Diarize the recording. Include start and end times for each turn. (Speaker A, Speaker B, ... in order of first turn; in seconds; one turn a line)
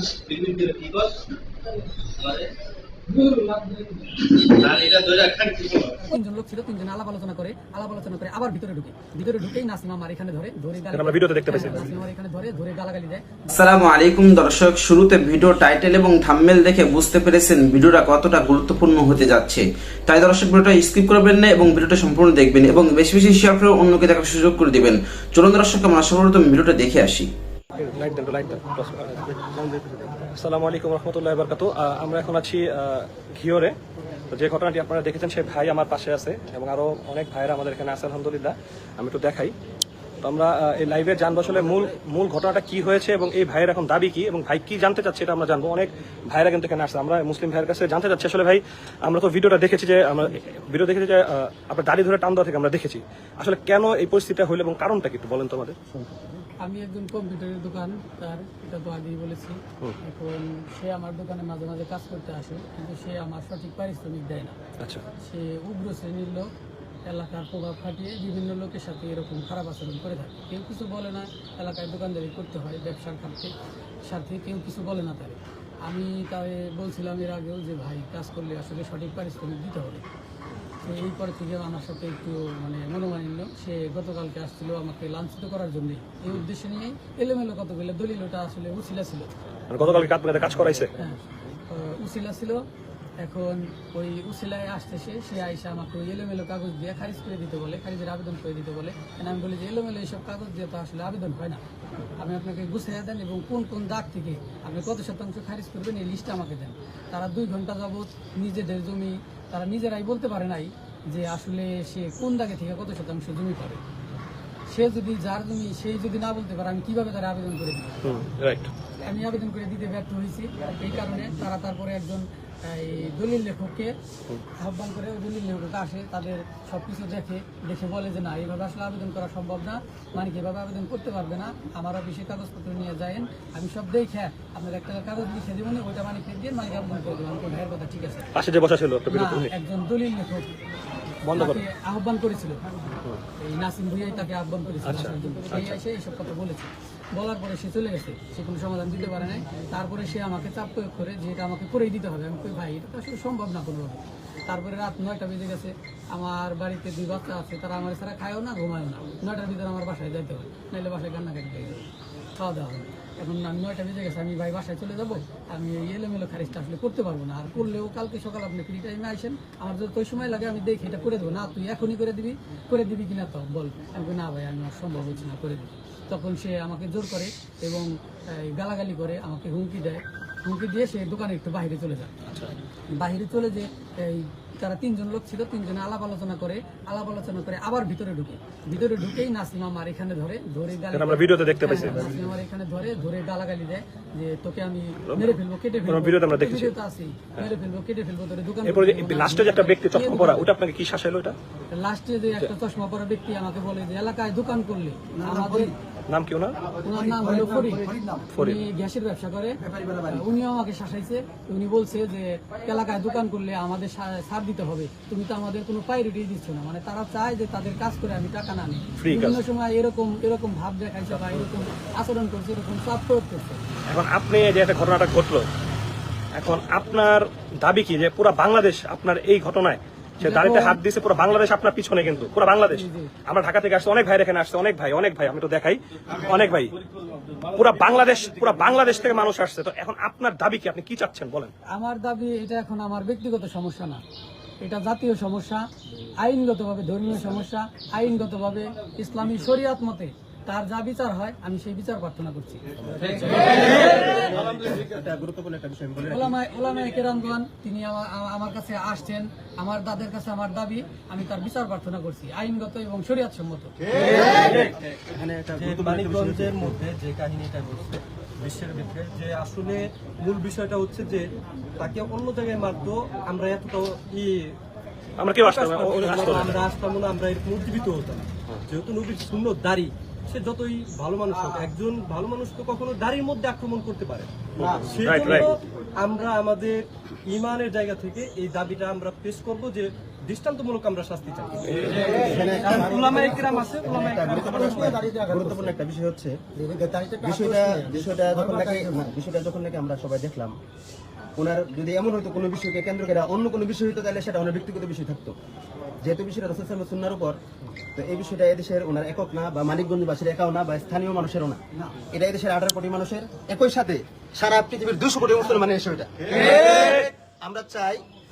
Speaker A: 0.3-1.1
Speaker A: 2.2-2.5
Speaker A: 3.2-3.7
Speaker A: 4.4-5.9
Speaker B: 6.0-13.6
Speaker C: 10.9-11.9
Speaker D: 13.5-27.3
Speaker C: 27.8-33.8
Speaker C: 34.3-39.5
Speaker C: 40.2-55.8
Speaker B: 56.6-64.6
Speaker C: 64.8-65.0
Speaker B: 65.2-66.5
Speaker B: 67.0-73.5
Speaker B: 74.0-80.0
Speaker B: 80.8-89.3
Speaker C: 89.7-90.9
Speaker B: 91.0-92.6
Speaker B: 93.2-101.6
Speaker B: 102.2-113.8
Speaker B: 114.7-118.0
Speaker C: 118.0-118.7
Speaker B: 119.0-124.0
Speaker B: 124.6-138.3
Speaker C: 138.3-139.5
Speaker B: 139.1-140.5
Speaker C: 141.2-141.6
Speaker B: 141.3-142.6
Speaker B: 143.4-161.8
Speaker C: 144.9-145.8
Speaker B: 162.4-182.1
Speaker B: 182.9-200.5
Speaker C: 190.9-192.2
Speaker C: 195.1-195.3
Speaker C: 195.9-196.7
Speaker C: 198.7-201.4
Speaker B: 201.7-205.7
Speaker C: 206.1-206.6
Speaker B: 206.8-223.6
Speaker C: 208.3-208.6
Speaker C: 219.0-219.4
Speaker C: 223.9-225.5
Speaker C: 226.3-236.8
Speaker B: 230.2-230.8
Speaker B: 232.7-233.1
Speaker C: 237.5-241.5
Speaker B: 241.7-244.0
Speaker B: 244.6-245.7
Speaker B: 246.2-252.6
Speaker E: 253.1-256.3
Speaker B: 256.1-263.7
Speaker F: 264.3-264.7
Speaker E: 265.1-265.9
Speaker F: 265.5-271.2
Speaker F: 271.8-274.5
Speaker C: 275.2-276.6
Speaker F: 275.4-295.0
Speaker C: 284.6-285.5
Speaker D: 292.3-292.8
Speaker E: 292.4-293.2
Speaker E: 293.8-300.6
Speaker E: 301.4-305.4
Speaker E: 306.0-307.4
Speaker E: 308.0-311.6
Speaker E: 312.1-318.0